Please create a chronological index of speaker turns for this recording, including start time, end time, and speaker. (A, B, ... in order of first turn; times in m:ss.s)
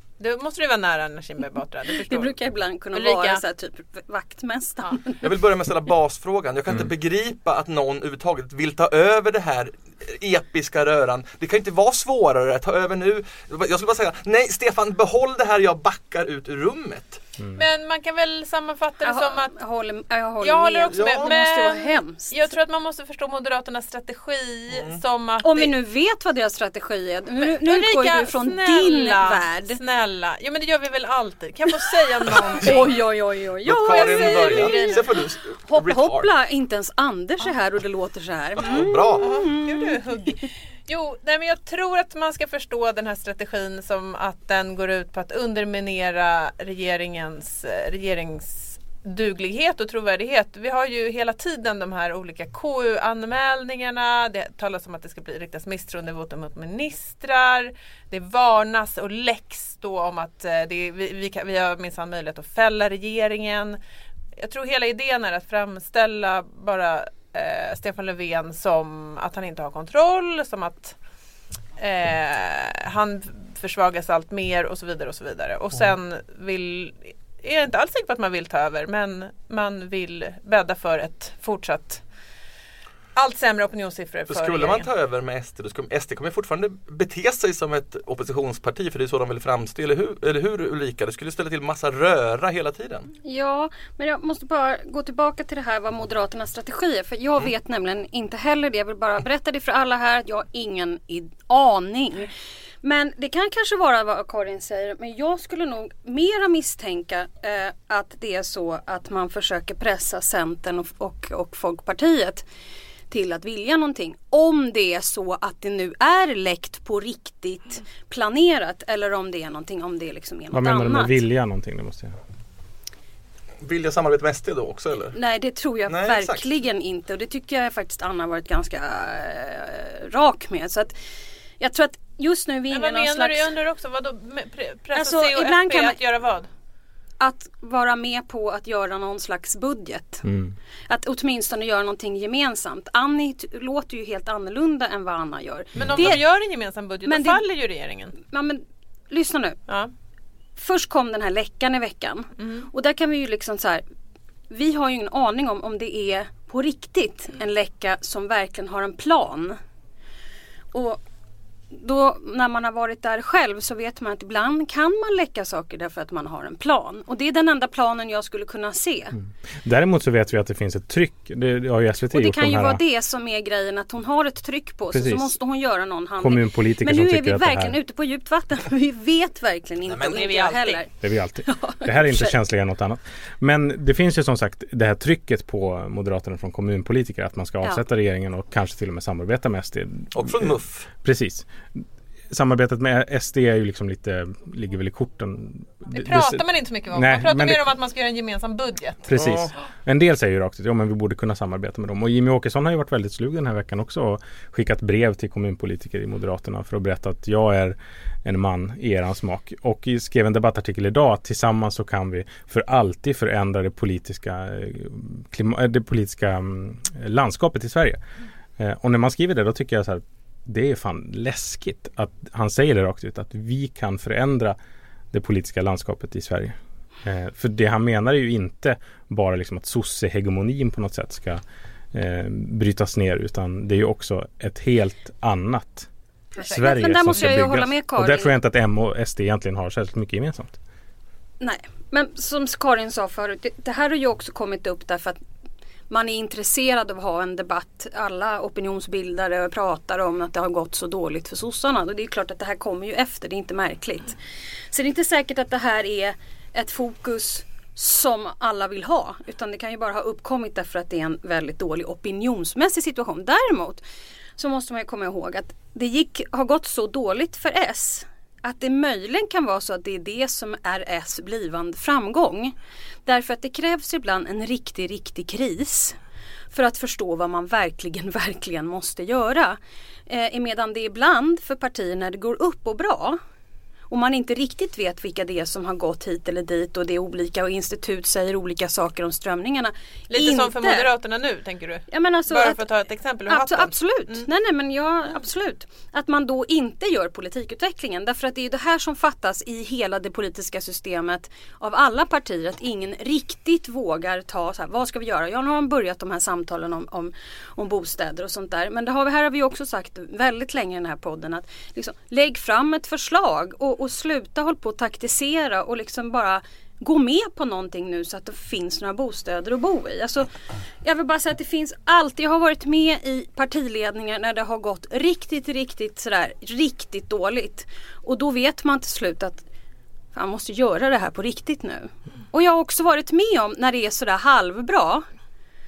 0:00.2-0:02.3 A
0:01.9-0:05.3 B
0:02.9-0:03.4 A
0:05.2-0:17.2 C
0:17.6-0:19.6 A
0:19.0-0:22.5 B
0:20.4-0:25.7 A
0:20.9-0:21.3 C
0:24.7-0:25.0 C
0:25.4-0:29.8 B
0:27.4-0:32.9 A
0:32.5-0:40.0 B
0:32.6-0:32.9 C
0:33.6-0:36.3 C
0:33.7-0:35.1 A
0:38.6-0:39.3 C
0:39.2-1:03.8 A
1:04.4-1:11.0 A
1:11.8-1:22.0 A
1:23.2-1:24.9 A
1:24.3-1:33.1 C
1:33.2-1:42.3 B
1:42.8-1:52.4 B
1:53.1-2:01.2 B
2:00.5-2:02.1 D
2:03.6-2:05.2 C
2:05.1-2:10.9 B
2:05.9-2:06.5 C
2:11.6-2:13.5 B
2:12.7-2:16.5 A
2:15.0-2:16.0 B
2:17.2-2:20.2 B
2:20.2-2:20.5 D
2:20.9-2:26.2 B
2:25.8-2:26.0 D
2:25.8-2:28.2 A
2:27.1-2:27.4 B
2:28.3-2:29.6 B
2:30.6-2:33.8 B
2:32.4-2:32.7 A
2:34.5-2:39.6 B
2:40.7-2:41.0 B
2:41.7-2:49.2 B
2:49.6-2:52.8 D
2:52.1-3:00.9 B
2:54.9-2:55.4 D
2:56.2-2:57.8 D
2:59.8-3:00.2 C
3:00.0-3:00.8 A
3:01.0-3:17.7 D
3:01.4-3:02.4 B
3:10.1-3:10.9 C
3:15.9-3:19.1 A
3:19.1-3:38.0 D
3:19.2-3:19.5 C
3:38.6-3:44.6 D
3:45.1-3:51.4 D
3:51.9-4:00.6 D
3:56.4-3:58.3 B
4:01.4-4:05.2 B
4:05.9-4:14.2 B
4:14.7-4:23.8 B
4:24.4-4:32.5 B
4:33.0-4:36.0 B
4:36.5-4:43.2 B
4:43.9-4:50.9 B
4:50.1-4:54.3 A
4:51.9-4:52.6 B
4:53.3-5:20.3 B
5:20.8-5:29.4 B
5:30.1-5:35.1 B